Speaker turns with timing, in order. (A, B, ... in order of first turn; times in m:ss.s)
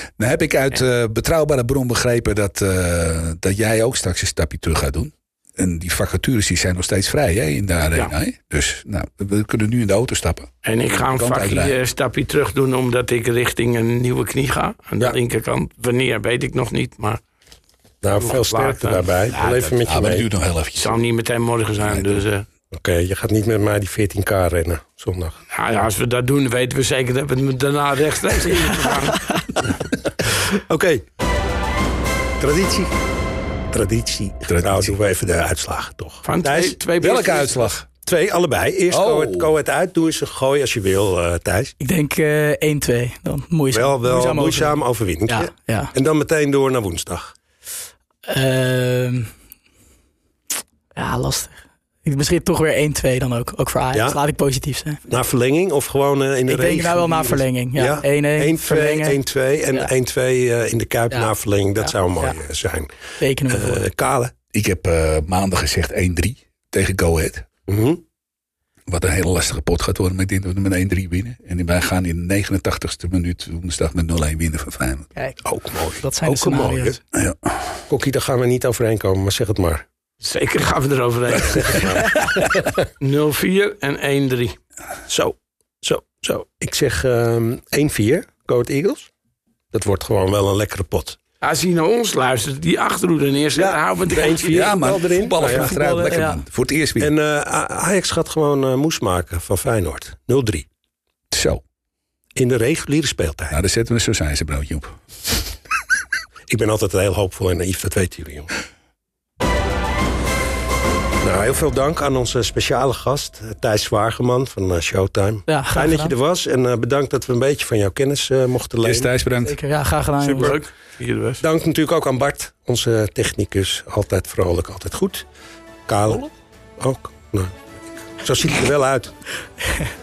0:00.2-0:11.7 A
0:10.6-0:17.2 B
0:18.0-0:20.3 C
0:18.2-0:19.8 B
0:19.9-0:21.0 A
0:20.8-0:22.4 B
0:21.8-0:22.2 A
0:22.7-0:25.4 C
0:25.5-0:29.3 B
0:30.5-0:31.0 C
0:32.4-0:33.0 C
0:33.7-0:36.8 C
0:34.5-0:35.0 A
0:36.2-0:37.7 B
0:37.0-0:37.9 A
0:38.0-0:41.7 C
0:38.9-0:39.5 A
0:41.8-0:45.9 D
0:43.7-0:47.3 C
0:48.3-0:49.3 D
0:51.0-0:55.0 D
0:53.9-0:54.2 C
0:55.1-1:02.9 C
0:56.5-0:59.2 D
1:01.1-1:02.4 D
1:03.2-1:03.8 D
1:03.5-1:04.3 C
1:04.5-1:07.5 A
1:07.7-1:08.0 C
1:08.9-1:15.1 A
1:15.4-1:17.0 C
1:16.0-1:17.0 D
1:17.1-1:17.6 A
1:17.9-1:19.8 C
1:20.2-1:24.6 B
1:21.5-1:22.2 C
1:25.1-1:29.1 C
1:29.7-1:31.2 C
1:31.4-1:34.6 B
1:33.6-1:36.2 C
1:34.5-1:37.1 A
1:35.4-1:36.4 D
1:37.0-1:40.7 C
1:41.3-1:41.6 A
1:42.4-1:43.6 C
1:43.5-1:45.0 A
1:46.5-1:48.5 C
1:51.2-1:59.1 C
1:55.5-1:56.1 D
1:58.8-1:59.6 A
1:59.4-2:00.6 D
2:00.2-2:00.6 C
2:00.3-2:01.4 B
2:01.4-2:05.2 C
2:05.9-2:07.6 C
2:08.2-2:09.2 C